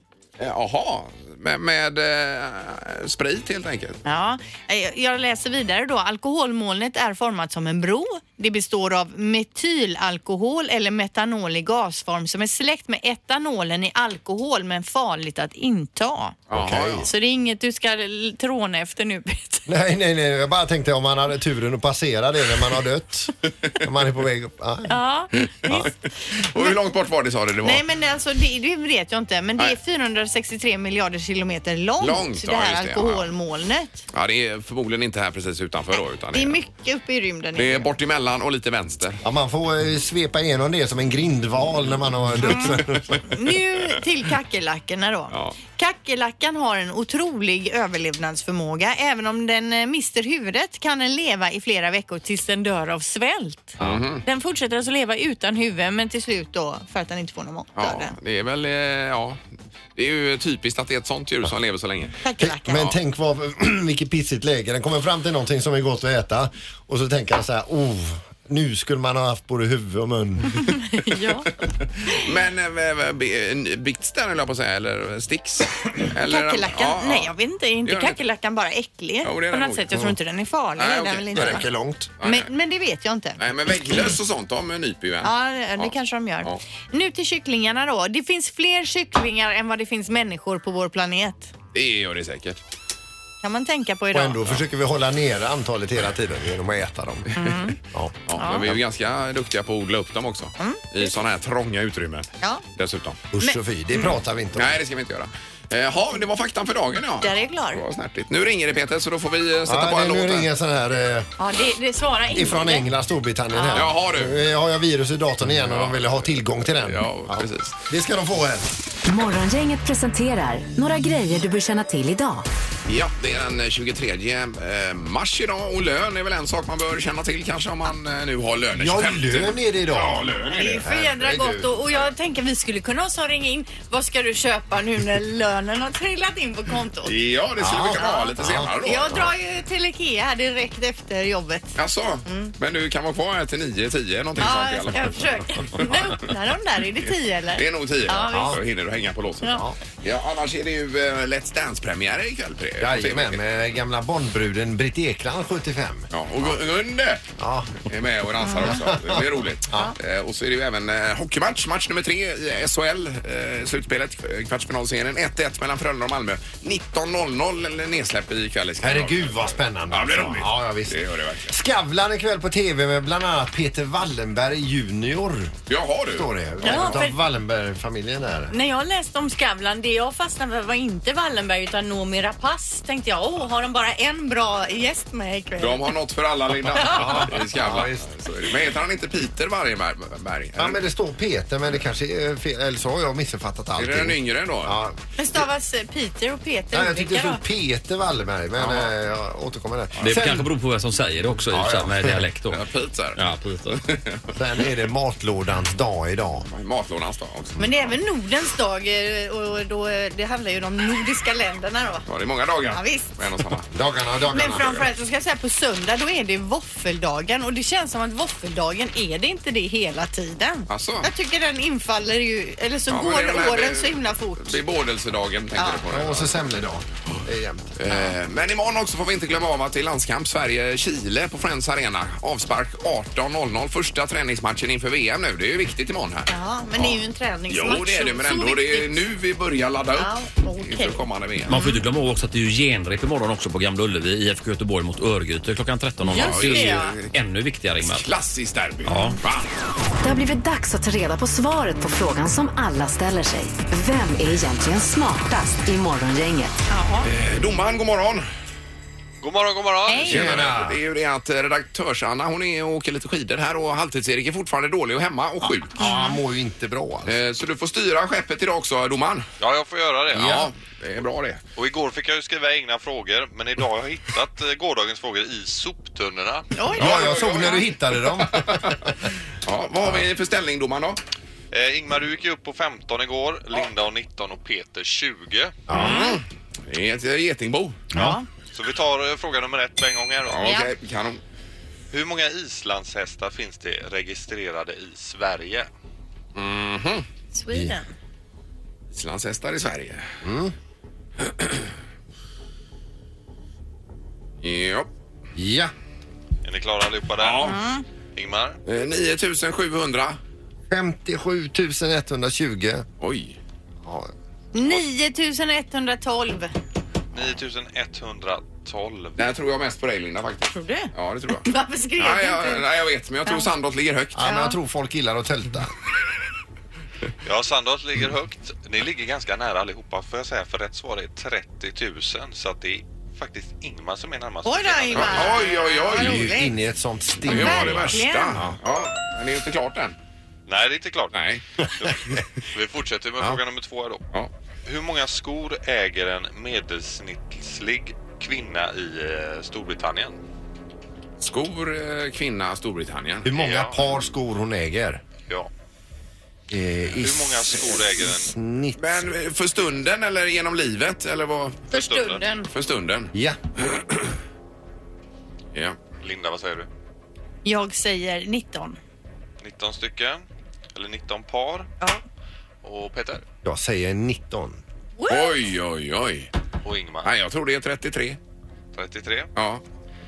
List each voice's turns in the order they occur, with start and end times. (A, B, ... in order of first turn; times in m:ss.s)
0:00.4-0:04.0 A
0:04.0-0:16.4 B
0:16.5-0:17.1 A
0:16.5-0:17.1 C
0:17.0-0:19.7 B
0:19.7-0:25.0 C
0:24.9-0:26.0 B
0:25.4-0:27.8 A
0:27.6-0:34.0 B
0:32.0-0:33.3 A
0:34.1-0:36.6 A
0:35.9-0:37.9 B
0:37.5-0:39.2 A
0:39.2-0:43.2 C
0:42.4-0:58.1 B
0:42.8-0:43.2 A
0:45.3-0:45.6 A
0:53.8-0:54.0 C
0:53.8-0:54.2 A
0:57.8-0:59.4 A
1:00.0-1:02.2 A
1:02.2-1:02.8 B
1:02.4-1:10.6 C
1:10.5-1:11.5 B
1:12.1-1:17.3 A
1:16.3-1:21.7 B
1:17.8-1:18.2 A
1:19.2-1:20.1 A
1:20.8-1:21.6 A
1:21.3-1:22.1 C
1:22.2-1:22.5 A
1:22.2-1:23.4 B
1:23.4-1:25.9 A
1:25.2-1:31.5 B
1:31.7-1:32.6 A
1:33.4-1:34.4 B
1:34.1-1:38.8 C
1:37.4-1:37.8 B
1:38.3-1:43.2 A
1:38.4-1:38.6 B
1:40.6-1:41.1 B
1:43.3-1:44.8 C
1:44.5-1:50.5 A
1:47.2-1:47.8 B
1:49.6-1:51.3 C
1:51.4-1:52.9 B
1:52.3-1:58.7 C
1:53.5-1:53.9 B
1:53.7-1:54.4 A
1:55.5-1:57.8 A
1:59.0-2:02.4 D
2:02.9-2:10.8 A
2:08.7-2:10.2 C
2:10.5-2:17.1 B
2:10.8-2:11.7 C
2:17.0-2:19.3 A
2:17.6-2:19.3 C
2:18.0-2:22.5 B
2:21.8-2:26.3 A
2:24.4-2:28.5 B
2:27.5-2:33.4 A
2:28.3-2:28.6 C
2:32.8-2:36.5 C
2:36.1-2:37.2 A
2:37.4-2:37.8 C
2:37.8-2:51.5 A
2:38.4-2:38.8 B
2:38.5-2:39.9 C
2:48.8-2:55.5 C
2:55.7-2:56.3 A
2:56.1-2:58.5 C
2:56.6-2:57.2 B
2:58.5-3:05.8 B
3:05.6-3:10.8 A
3:06.7-3:07.3 B
3:06.9-3:08.1 C
3:10.6-3:15.0 C
3:13.8-3:14.8 A
3:15.2-3:17.4 B
3:16.7-3:20.5 C
3:18.6-3:18.9 A
3:20.0-3:22.6 E
3:21.5-3:22.3 C
3:22.5-3:24.3 A
3:23.2-3:23.7 E
3:24.3-3:26.5 C
3:26.5-3:27.8 A
3:27.6-3:32.1 B
3:32.1-3:33.7 A
3:32.7-3:33.1 B
3:33.7-3:34.8 C
3:34.3-3:44.6 B
3:40.7-3:41.1 A
3:42.9-3:46.5 A
3:45.6-3:45.8 B
3:45.9-3:47.7 C
3:47.8-3:57.0 A
3:47.9-3:48.1 B
3:56.3-3:59.0 B
3:57.5-4:01.5 A
4:00.0-4:01.8 B
4:01.5-4:08.1 E
4:06.1-4:07.0 B
4:06.1-4:07.2 A
4:07.7-4:09.5 A
4:08.9-4:09.2 E
4:10.0-4:16.6 D
4:16.7-4:17.1 B
4:17.0-4:18.3 A
4:19.2-4:20.1 F
4:19.8-4:20.2 B
4:20.0-4:20.8 C
4:20.0-4:25.8 A
4:25.7-4:27.2 C
4:25.8-4:26.2 B
4:27.0-4:29.3 A
4:29.4-4:30.4 F
4:30.1-4:30.5 C
4:30.2-4:31.4 A
4:31.6-4:36.5 F
4:36.5-4:37.6 B
4:36.8-4:38.8 A
4:36.8-4:38.8 C
4:39.4-4:41.0 A
4:41.5-4:45.6 F
4:45.7-4:46.0 C
4:45.7-4:47.8 A
4:45.8-4:46.2 B
4:47.9-4:48.3 B
4:48.5-4:50.6 F
4:50.2-4:51.2 A
4:50.4-4:50.7 B
4:51.9-4:55.7 F
4:56.3-4:57.0 A
4:57.3-4:57.9 B
4:58.9-5:00.1 A
5:00.2-5:00.5 C
5:01.2-5:01.6 A
5:04.4-5:04.9 A
5:05.3-5:05.7 C
5:06.4-5:07.6 F
5:07.2-5:07.6 A
5:07.4-5:07.8 B
5:08.1-5:08.6 F
5:08.6-5:10.2 A
5:10.7-5:12.8 C
5:13.0-5:13.4 A
5:13.8-5:14.1 C
5:14.5-5:16.5 B
5:17.1-5:19.2 F
5:19.2-5:24.2 A
5:20.5-5:22.6 B
5:24.2-5:25.7 C
5:24.2-5:24.6 B
5:27.2-5:35.6 F
5:34.4-5:36.5 B
5:34.9-5:36.4 A
5:35.9-5:38.6 C
5:37.2-5:40.0 A
5:37.2-5:38.4 B
5:40.5-5:41.2 F
5:41.1-5:41.4 A
5:42.5-5:44.0 F
5:44.6-5:50.2 F
5:51.2-5:53.4 A
5:53.2-5:55.0 C
5:53.3-5:53.8 F
5:56.5-5:59.1 C
5:57.0-5:58.3 F
5:58.8-6:04.0 A
6:01.7-6:02.5 B
6:01.8-6:02.2 F
6:03.1-6:03.4 C
6:06.0-6:06.7 F
6:07.4-6:08.8 B
6:09.4-6:11.7 F
6:12.6-6:13.2 F
6:13.4-6:14.6 C
6:15.0-6:15.4 B
6:15.1-6:16.3 A
6:16.6-6:17.1 F
6:17.0-6:18.2 A
6:18.7-6:19.3 F
6:19.4-6:19.6 A